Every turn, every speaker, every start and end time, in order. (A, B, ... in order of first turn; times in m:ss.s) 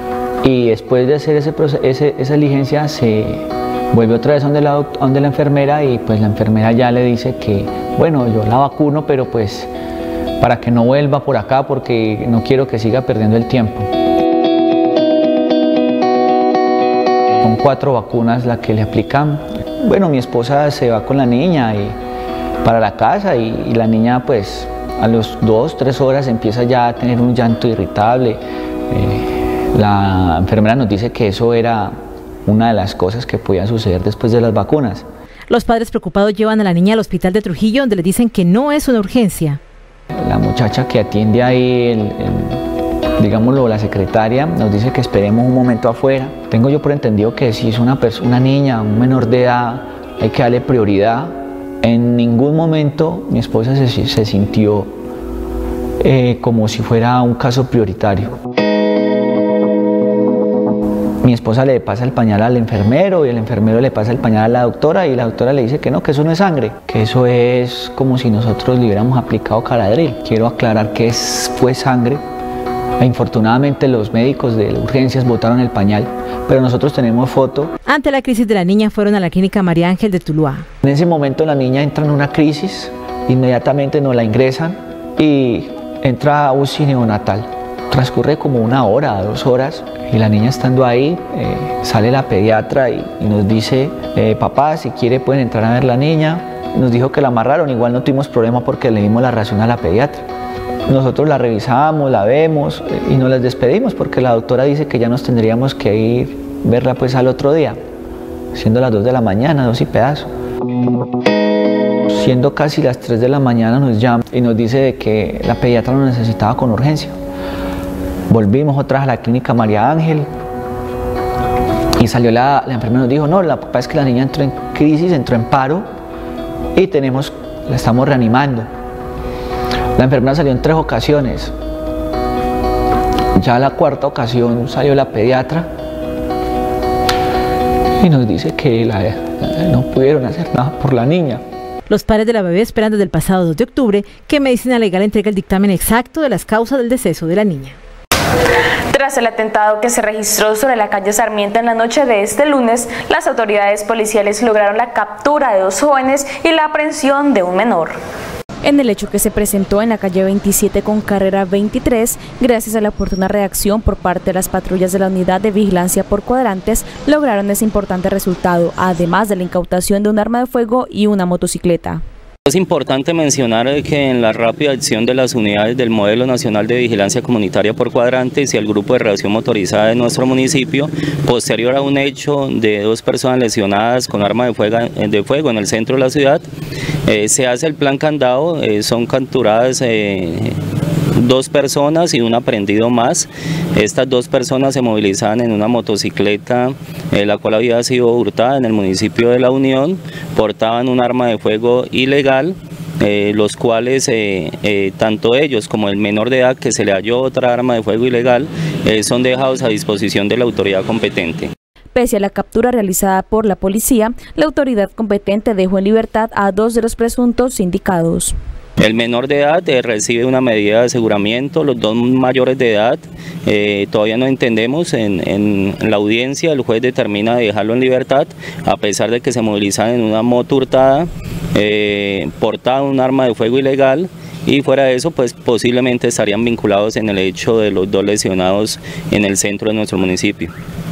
0:00.4-0:09.7 A
0:10.4-0:13.9 A
0:17.4-0:22.0 A
0:22.6-0:35.0 A
0:35.5-0:39.6 B
0:40.1-0:42.6 A
0:43.2-0:55.0 A
0:56.0-0:58.3 A
1:01.2-1:12.2 A
1:13.0-1:17.7 A
1:17.9-1:20.6 B
1:20.8-1:40.3 A
1:40.9-1:47.8 A
1:48.5-1:50.3 A
1:52.1-1:57.2 A
1:58.3-2:00.3 A
2:02.0-2:05.9 A
2:06.7-2:08.7 A
2:10.0-2:11.5 A
2:13.3-2:15.7 A
2:18.0-2:21.4 A
2:21.9-2:27.8 B
2:28.9-2:38.0 C
2:38.6-2:52.0 D
2:52.5-3:06.5 E
3:07.1-3:10.6 E
3:11.1-3:31.5 E
3:31.9-3:38.3 D
3:38.8-4:00.5 E